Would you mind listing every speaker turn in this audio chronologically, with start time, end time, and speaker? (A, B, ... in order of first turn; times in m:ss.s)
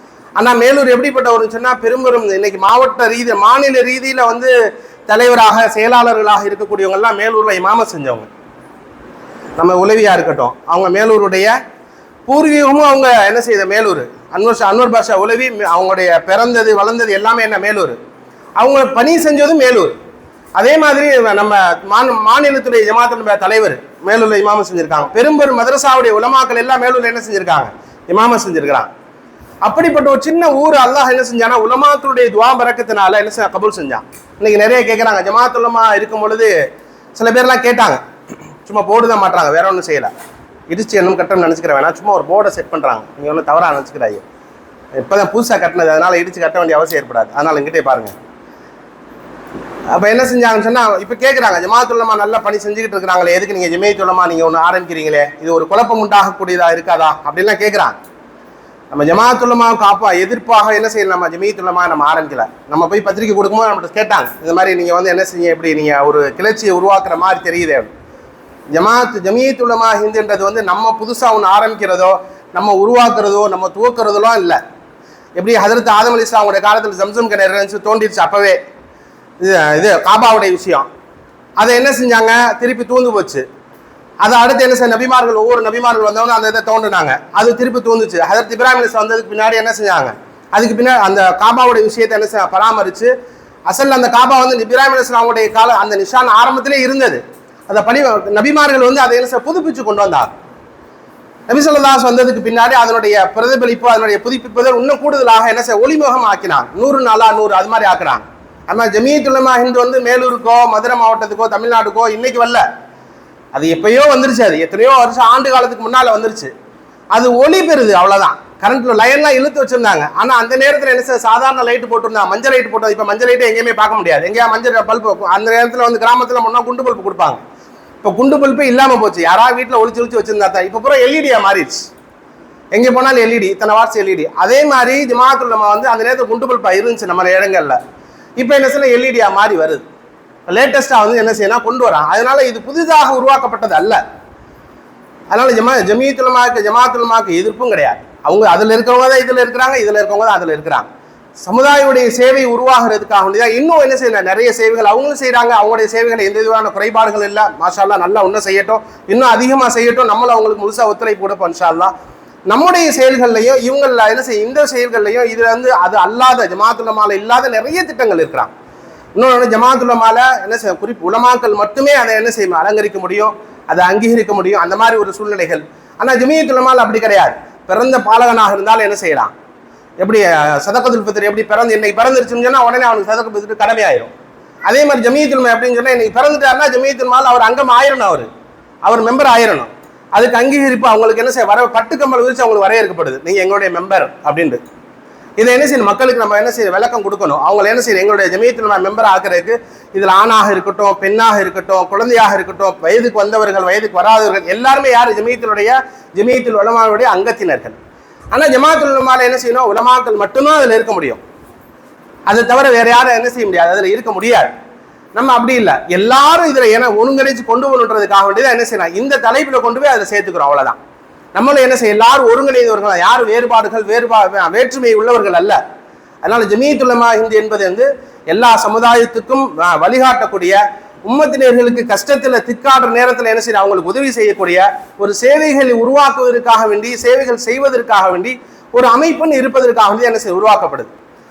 0:00.4-0:04.5 A
0:05.1-0:08.3 A
0:09.6-0:11.5 A
0:12.3-0:18.0 A
0:18.6-0:20.0 A
0:20.6-0:28.9 A
0:29.6-0:36.5 A
0:37.2-0:38.0 A
0:38.7-0:40.1 A
0:40.7-0:44.2 A
0:45.0-0:48.1 A
0:49.9-0:58.0 A
0:58.9-1:07.9 A
1:08.7-1:14.6 A
1:15.4-1:18.6 A
1:19.4-1:20.9 A
1:21.6-1:23.4 A
1:24.2-1:33.1 A
1:33.7-1:40.3 A
1:41.5-1:52.6 A
1:53.5-1:56.5 A
1:57.1-2:07.4 A
2:08.0-2:11.9 A
2:12.7-2:17.8 A
2:18.4-2:19.8 A
2:20.5-2:24.0 A
2:25.3-2:30.9 A
2:31.4-2:41.9 A
2:42.5-2:48.5 A
2:49.2-2:59.3 A
3:00.0-3:04.1 A
3:04.7-3:08.3 A
3:08.8-3:14.6 A
3:15.4-3:27.8 A
3:28.3-3:31.2 A
3:32.3-3:34.5 A
3:35.2-3:40.8 A
3:41.4-3:45.6 A
3:46.2-4:00.9 A